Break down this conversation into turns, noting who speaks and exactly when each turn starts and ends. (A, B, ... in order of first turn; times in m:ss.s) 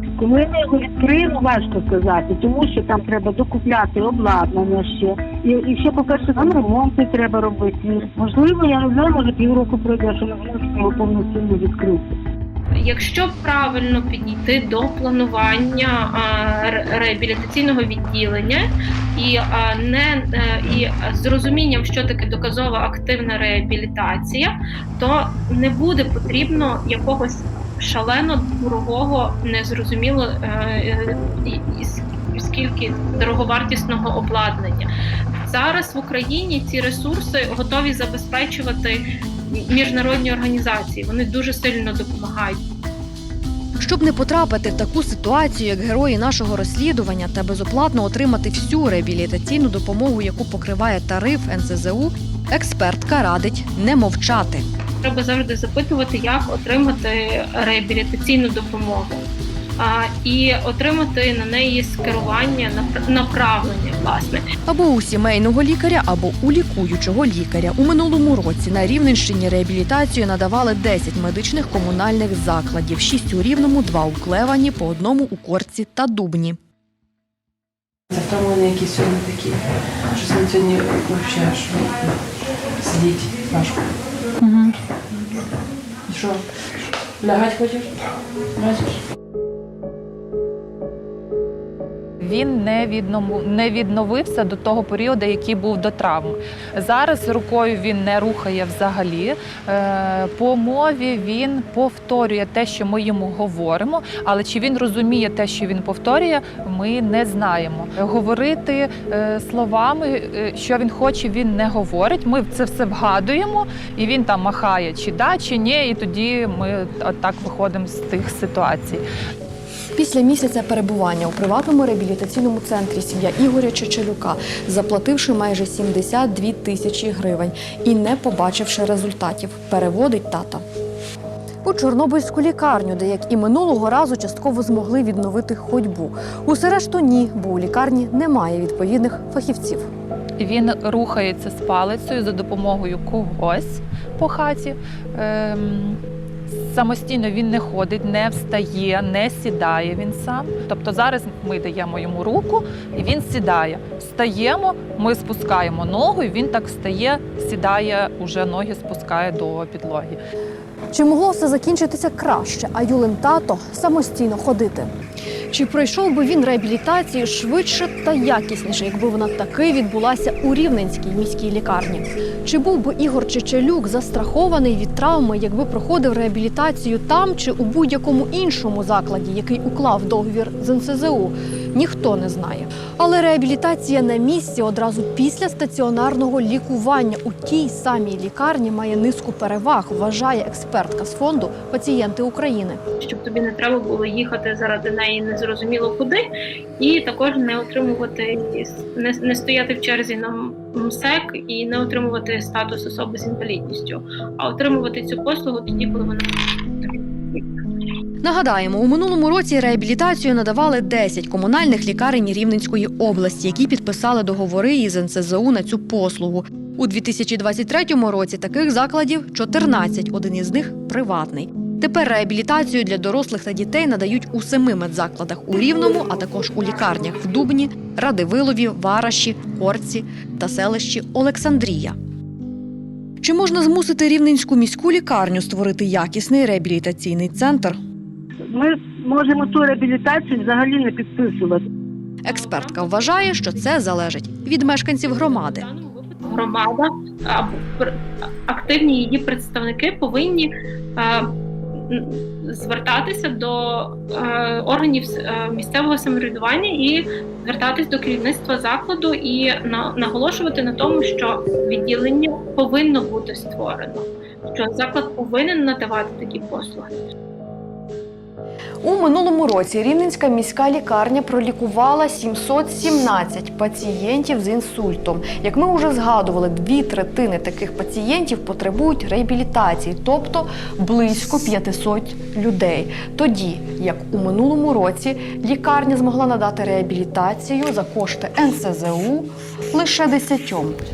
0:00.2-0:12.2 A
0:12.8-0:34.9 B
0:35.5-0:42.6 B
0:43.8-0:54.6 C
0:55.0-0:59.2 B
0:59.8-1:04.4 B
1:04.6-1:16.6 C
1:18.1-1:22.2 D
1:22.8-1:23.9 D
1:24.4-1:24.7 E
1:26.1-1:26.4 D
1:27.2-1:28.0 D
1:28.6-1:29.0 D
1:32.2-1:59.0 E
2:00.0-2:10.6 C
2:11.6-2:19.9 C
2:20.4-2:26.0 E
2:26.5-2:40.2 E
2:40.9-2:44.9 C
2:45.5-3:12.8 C
3:13.0-3:16.2 B
3:16.8-3:27.4 B
3:28.2-3:52.0 C
3:53.2-3:57.8 C
3:58.5-4:01.6 A
4:02.2-4:05.7 C
4:02.3-4:03.1 B
4:05.5-4:08.0 B
4:08.5-4:11.3 B
4:11.9-4:27.1 B
4:28.8-4:50.8 C